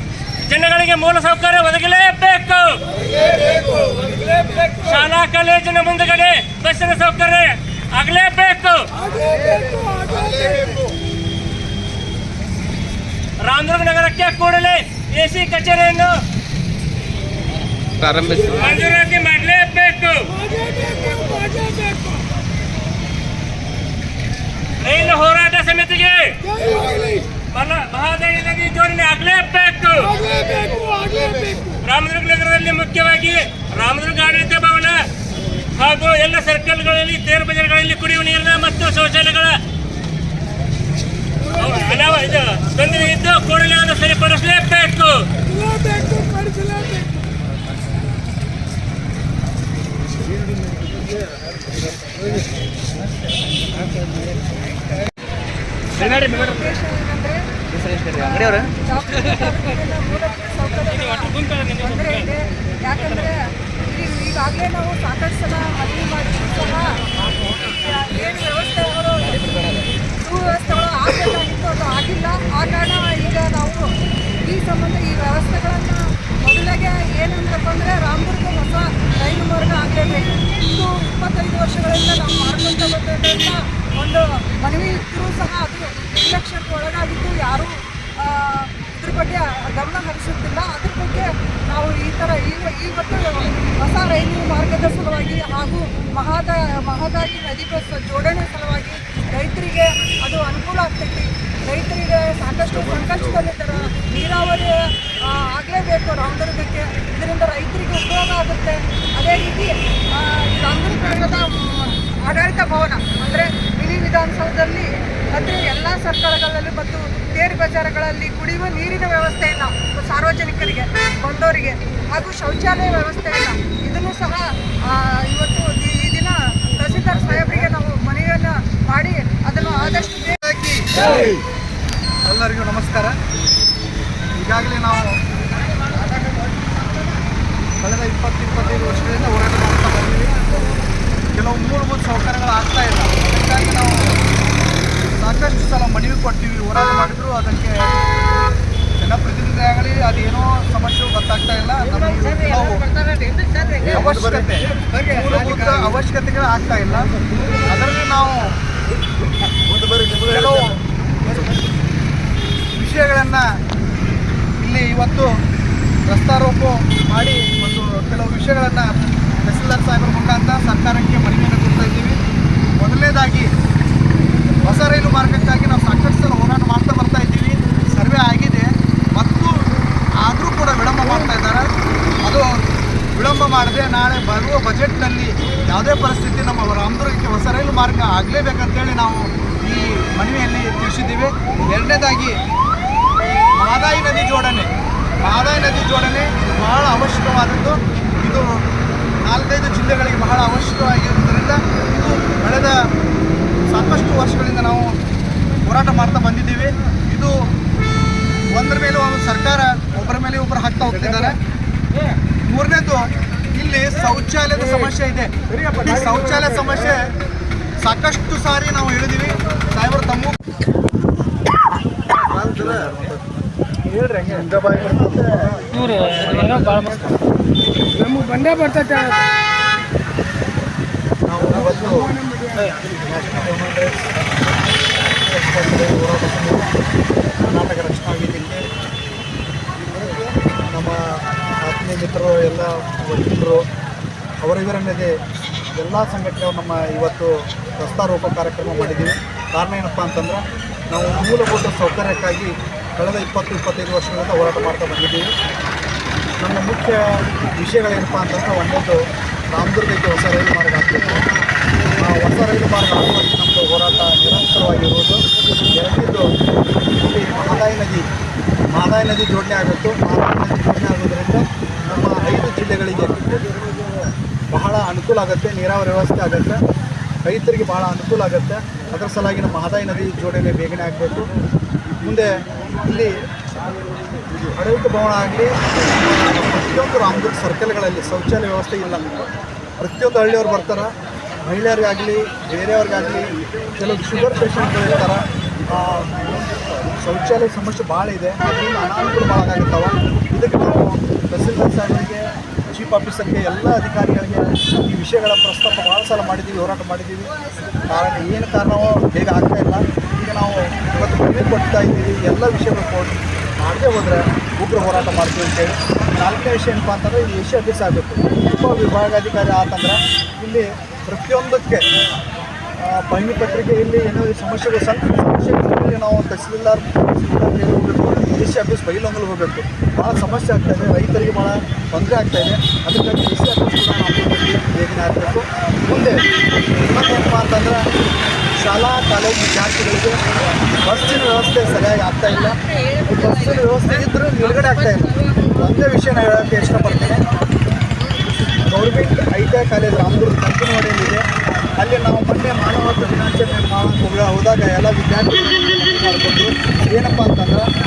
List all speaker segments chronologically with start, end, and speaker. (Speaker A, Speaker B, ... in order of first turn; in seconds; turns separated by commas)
Speaker A: 0.5-10.7, Speaker A: 13.4-16.2, Speaker A: 18.0-22.1, Speaker A: 24.8-35.0, Speaker A: 35.8-39.6, Speaker A: 41.5-45.3, Speaker A: 46.1-46.8, Speaker B: 55.9-69.6, Speaker C: 57.8-58.7, Speaker B: 70.2-130.4, Speaker D: 130.4-131.3, Speaker D: 132.2-133.1, Speaker D: 134.3-135.2, Speaker D: 137.8-140.3, Speaker D: 141.3-144.1, Speaker D: 145.1-147.9, Speaker D: 149.0-152.8, Speaker C: 153.0-154.4, Speaker D: 153.8-157.1, Speaker D: 157.6-158.5, Speaker C: 159.8-160.2, Speaker D: 160.0-161.5, Speaker D: 162.7-163.5, Speaker D: 164.6-165.3, Speaker D: 166.1-172.2, Speaker D: 172.8-173.5, Speaker D: 174.6-179.7, Speaker D: 180.2-181.7, Speaker D: 183.2-192.4, Speaker D: 193.5-198.5, Speaker D: 199.2-202.8, Speaker D: 203.7-204.9, Speaker D: 205.6-207.3, Speaker D: 208.5-211.4, Speaker D: 212.5-217.1, Speaker D: 217.8-220.4, Speaker D: 222.4-223.2, Speaker C: 224.0-224.9, Speaker D: 224.1-226.2, Speaker A: 225.9-226.8, Speaker C: 226.3-226.7, Speaker C: 228.4-229.0, Speaker D: 231.2-232.2, Speaker D: 232.8-234.1, Speaker D: 235.2-236.7, Speaker D: 237.5-238.6, Speaker D: 240.6-243.7, Speaker D: 244.4-245.2, Speaker D: 245.7-255.3, Speaker D: 256.4-261.3, Speaker D: 262.0-268.1, Speaker D: 268.7-273.4, Speaker D: 274.5-276.6, Speaker D: 277.2-281.3, Speaker D: 282.0-283.2, Speaker D: 284.5-289.1, Speaker D: 289.8-296.3, Speaker D: 296.9-307.3, Speaker D: 307.9-321.9, Speaker D: 322.8-336.2, Speaker D: 336.8-337.9, Speaker D: 338.6-340.1, Speaker D: 340.8-347.2, Speaker D: 348.7-351.2, Speaker D: 351.8-357.6